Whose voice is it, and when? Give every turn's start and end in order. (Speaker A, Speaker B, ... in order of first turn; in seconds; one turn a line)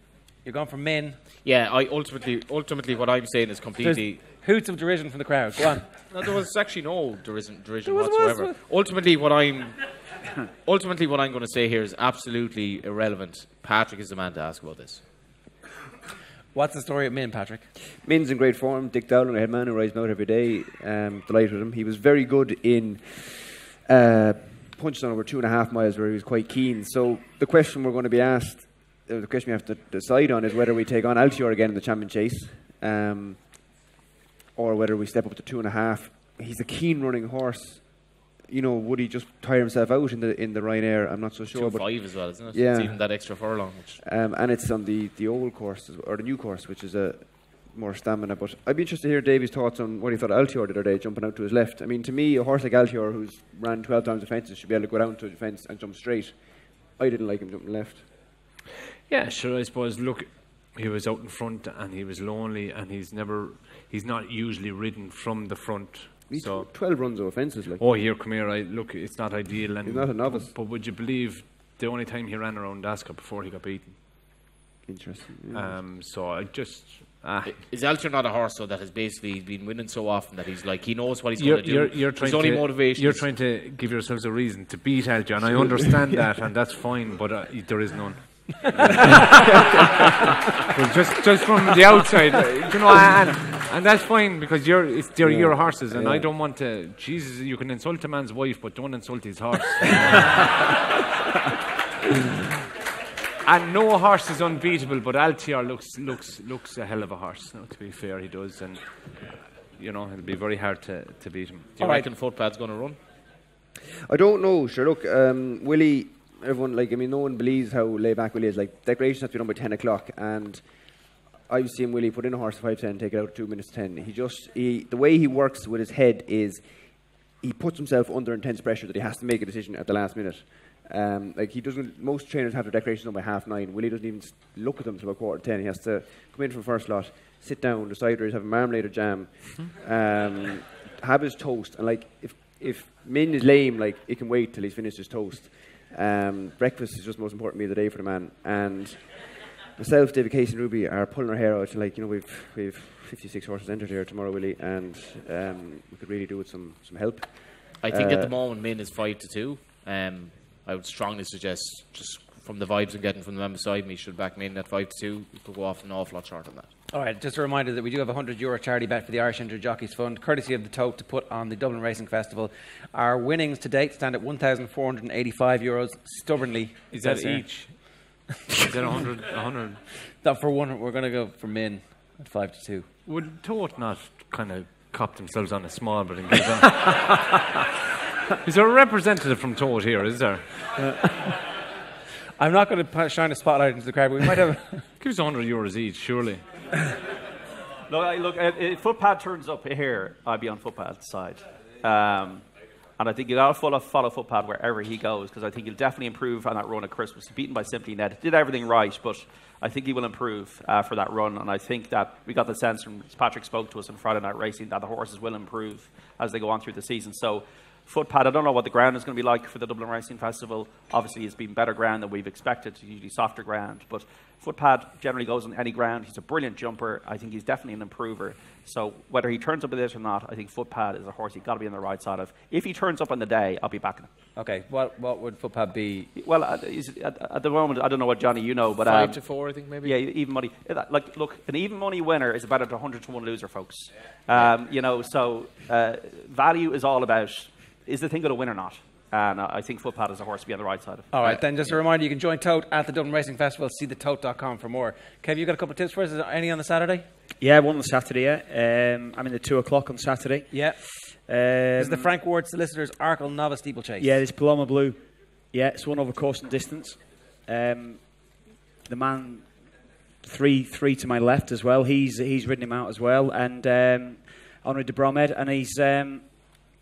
Speaker A: 0.4-1.2
Speaker B: 1.4-4.2
Speaker A: 3.8-5.9
Speaker B: 6.1-10.0
Speaker A: 7.8-8.6
Speaker B: 10.6-15.0
Speaker A: 16.5-17.7
Speaker C: 18.0-33.7
Speaker C: 34.5-56.4
Speaker B: 41.5-44.0
Speaker C: 57.0-58.0
Speaker D: 59.1-66.7
Speaker C: 66.3-67.8
Speaker D: 67.8-74.0
Speaker C: 69.8-70.5
Speaker C: 74.8-75.7
Speaker D: 75.5-77.6
Speaker B: 77.4-83.3
Speaker D: 81.4-89.5
Speaker C: 85.6-86.1
Speaker C: 88.8-90.1
Speaker D: 90.7-100.7
Speaker C: 95.2-96.3
Speaker D: 103.4-111.8
Speaker B: 111.8-113.0
Speaker A: 111.8-112.1
Speaker C: 114.1-120.6
Speaker C: 121.5-158.3
Speaker B: 157.8-166.7
Speaker A: 166.9-178.1
Speaker D: 176.9-179.8
Speaker A: 180.2-182.9
Speaker D: 183.1-187.3
Speaker D: 188.4-190.8
Speaker A: 192.4-194.8
Speaker D: 195.0-196.4
Speaker E: 197.9-202.4
Speaker E: 203.0-234.1
Speaker A: 234.3-236.1
Speaker E: 236.2-239.2
Speaker B: 238.8-240.0
Speaker E: 239.8-251.4
Speaker A: 251.1-257.1
Speaker F: 257.4-262.1
Speaker A: 260.5-260.9
Speaker A: 261.8-264.2
Speaker F: 264.0-269.5
Speaker F: 270.2-276.6